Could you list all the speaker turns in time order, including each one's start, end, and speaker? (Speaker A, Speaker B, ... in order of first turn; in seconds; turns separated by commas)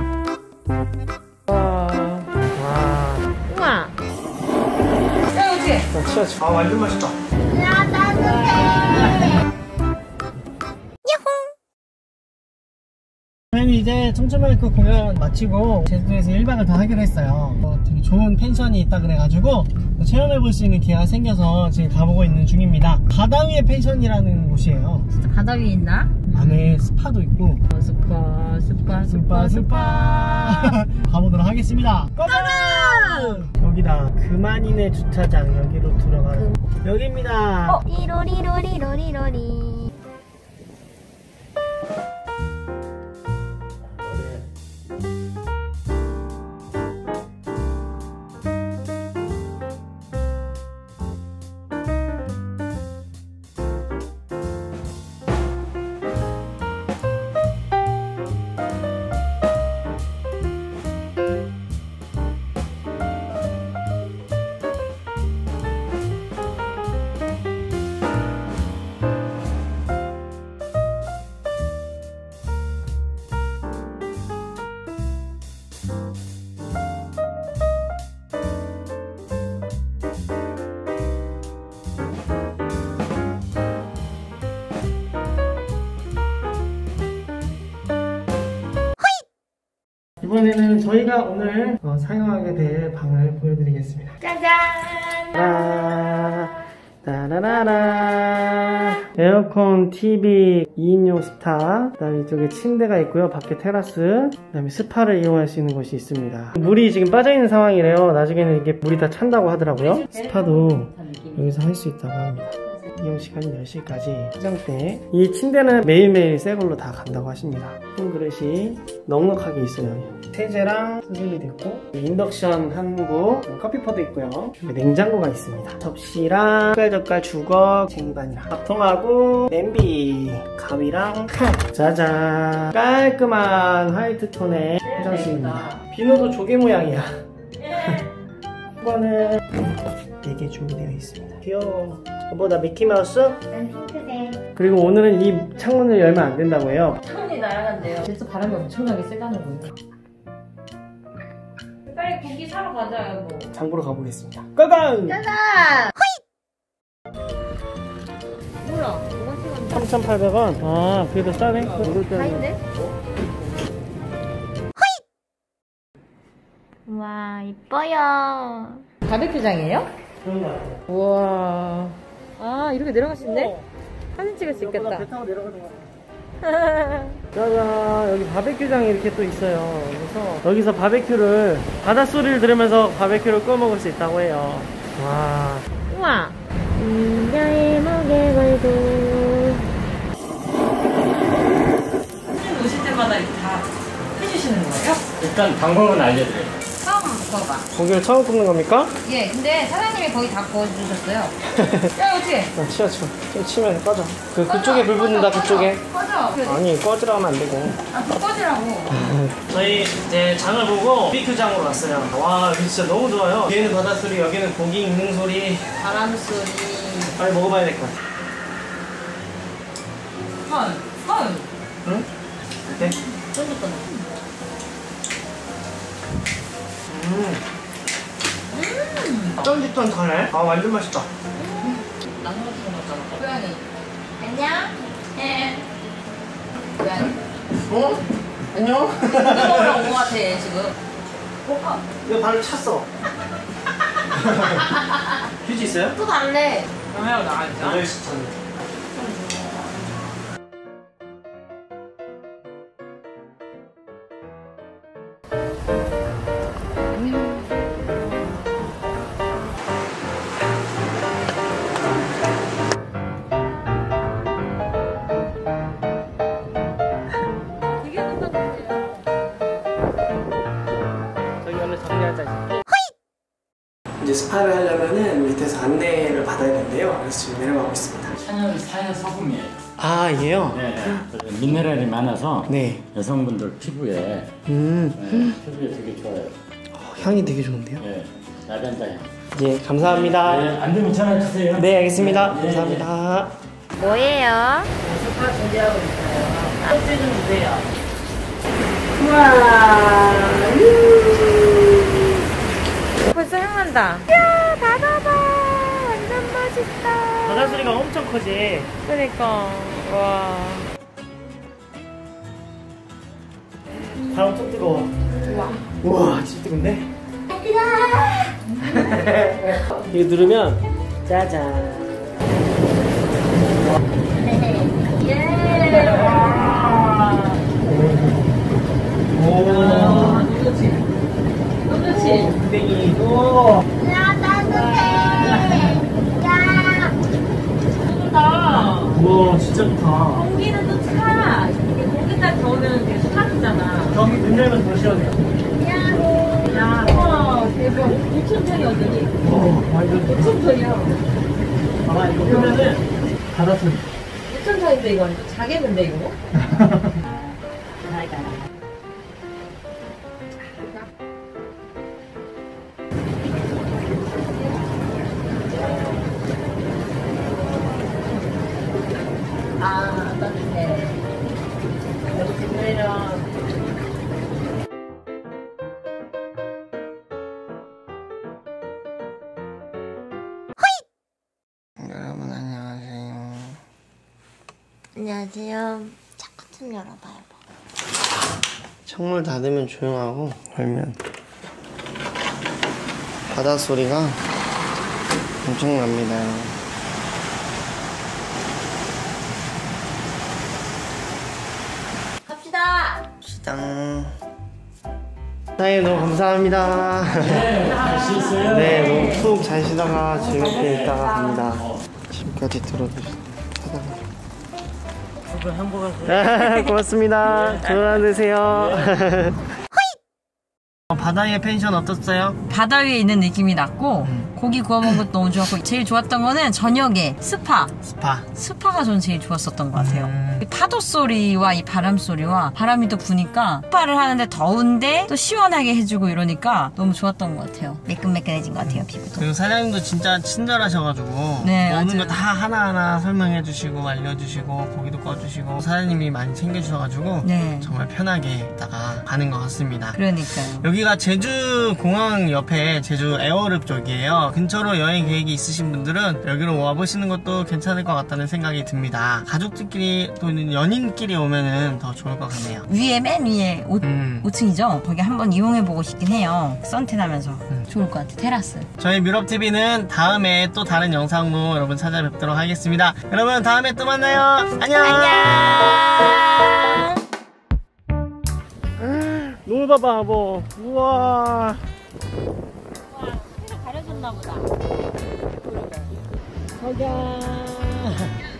Speaker A: 1.5-2.3, Speaker B: 2.5-3.3, Speaker A: 3.5-4.0, Speaker A: 5.3-5.9, Speaker B: 5.9-7.2, Speaker C: 7.5-9.4, Speaker A: 8.3-8.7, Speaker C: 11.1-11.5, Speaker B: 13.5-25.1, Speaker A: 25.1-26.8, Speaker B: 26.3-27.6, Speaker A: 27.7-30.7, Speaker B: 29.0-37.8, Speaker C: 37.9-39.9, Speaker B: 90.2-94.2, Speaker C: 94.3-95.3, Speaker B: 95.3-138.0, Speaker A: 109.8-111.6, Speaker A: 134.8-135.8, Speaker B: 138.8-139.6, Speaker B: 140.2-143.4, Speaker A: 143.6-144.4, Speaker C: 143.6-144.0, Speaker B: 144.6-147.0, Speaker A: 147.0-149.8, Speaker A: 151.9-153.5, Speaker B: 153.5-155.3, Speaker A: 155.1-156.0, Speaker A: 158.6-159.9, Speaker B: 159.7-162.4, Speaker A: 161.8-162.6, Speaker C: 166.9-168.8, Speaker A: 169.1-169.9, Speaker B: 170.2-170.8, Speaker A: 170.9-173.5, Speaker B: 173.2-173.7, Speaker A: 174.2-175.1, Speaker B: 174.4-175.9, Speaker A: 176.5-177.2, Speaker B: 177.3-185.7, Speaker A: 185.9-186.4, Speaker C: 186.8-189.6, Speaker A: 186.9-188.5, Speaker A: 192.3-195.0, Speaker D: 195.2-196.6, Speaker A: 196.8-197.7, Speaker B: 197.7-198.9, Speaker A: 199.0-201.3, Speaker B: 201.5-201.9, Speaker A: 201.9-202.5, Speaker B: 202.6-205.8, Speaker A: 204.5-206.6, Speaker B: 206.4-207.8, Speaker A: 207.9-208.9, Speaker B: 208.9-215.8, Speaker A: 215.8-217.2, Speaker B: 217.1-218.0, Speaker A: 220.4-221.5, Speaker B: 222.7-223.0, Speaker A: 222.7-224.2, Speaker B: 226.9-227.4, Speaker A: 228.5-229.4, Speaker B: 229.4-231.1, Speaker A: 231.3-233.6, Speaker A: 234.2-235.6, Speaker A: 236.8-237.2, Speaker B: 237.7-238.0, Speaker B: 238.5-239.9, Speaker A: 239.1-240.8, Speaker A: 241.4-241.8, Speaker B: 242.0-242.9, Speaker B: 244.1-244.6, Speaker B: 245.4-246.0, Speaker A: 246.0-247.8, Speaker B: 247.6-248.4, Speaker A: 248.9-249.7, Speaker A: 267.8-269.0, Speaker B: 271.4-272.5, Speaker B: 274.0-278.2, Speaker D: 278.2-279.6, Speaker B: 279.8-281.1, Speaker D: 280.5-284.3, Speaker B: 282.5-282.8, Speaker B: 284.5-285.4, Speaker D: 285.0-286.3, Speaker B: 286.7-287.9, Speaker D: 287.8-289.1, Speaker B: 289.3-290.5, Speaker D: 289.8-292.9, Speaker B: 291.6-293.3, Speaker C: 293.8-294.7, Speaker B: 294.9-296.5, Speaker D: 296.9-297.6, Speaker B: 299.0-301.8, Speaker A: 303.1-307.4, Speaker B: 307.2-308.7, Speaker A: 308.8-310.7, Speaker B: 314.1-315.0, Speaker B: 315.7-316.9, Speaker C: 317.4-318.3, Speaker B: 318.6-322.0, Speaker A: 324.2-326.8, Speaker B: 325.8-326.3, Speaker B: 327.6-328.4, Speaker B: 329.1-330.3, Speaker A: 329.4-330.9, Speaker A: 331.6-332.4, Speaker B: 331.8-333.7, Speaker A: 333.8-336.8, Speaker C: 334.0-335.9, Speaker C: 336.6-336.9, Speaker A: 337.8-339.0, Speaker B: 338.4-340.3, Speaker A: 340.1-344.0, Speaker B: 343.9-345.3, Speaker A: 345.6-349.2, Speaker B: 346.6-347.3, Speaker B: 349.2-350.4, Speaker A: 350.1-351.0, Speaker B: 351.9-353.8, Speaker A: 352.2-352.7, Speaker A: 354.3-356.1, Speaker B: 356.3-357.0, Speaker A: 357.9-358.4, Speaker A: 365.6-365.9, Speaker A: 369.6-371.0, Speaker A: 372.1-373.2, Speaker B: 381.8-383.6, Speaker C: 384.9-387.4, Speaker B: 388.9-391.0, Speaker B: 393.3-394.2, Speaker B: 395.4-396.6, Speaker A: 402.3-403.0, Speaker B: 403.2-404.1, Speaker B: 405.6-407.6, Speaker D: 407.2-409.3, Speaker A: 407.6-408.6, Speaker B: 408.4-414.0, Speaker D: 410.4-411.0, Speaker D: 415.3-416.2, Speaker B: 416.0-419.4, Speaker B: 420.9-422.4, Speaker A: 422.5-427.7, Speaker B: 424.0-424.3, Speaker B: 427.8-428.3, Speaker A: 428.3-439.3, Speaker B: 429.7-430.5, Speaker B: 438.6-450.0, Speaker A: 441.4-442.2, Speaker A: 447.2-447.7, Speaker A: 449.9-450.7, Speaker B: 450.6-462.7, Speaker A: 462.7-468.7, Speaker B: 463.8-464.3, Speaker B: 468.8-475.7, Speaker A: 474.8-477.0, Speaker B: 478.8-481.6, Speaker A: 483.0-484.5, Speaker A: 485.5-485.9, Speaker B: 486.6-488.1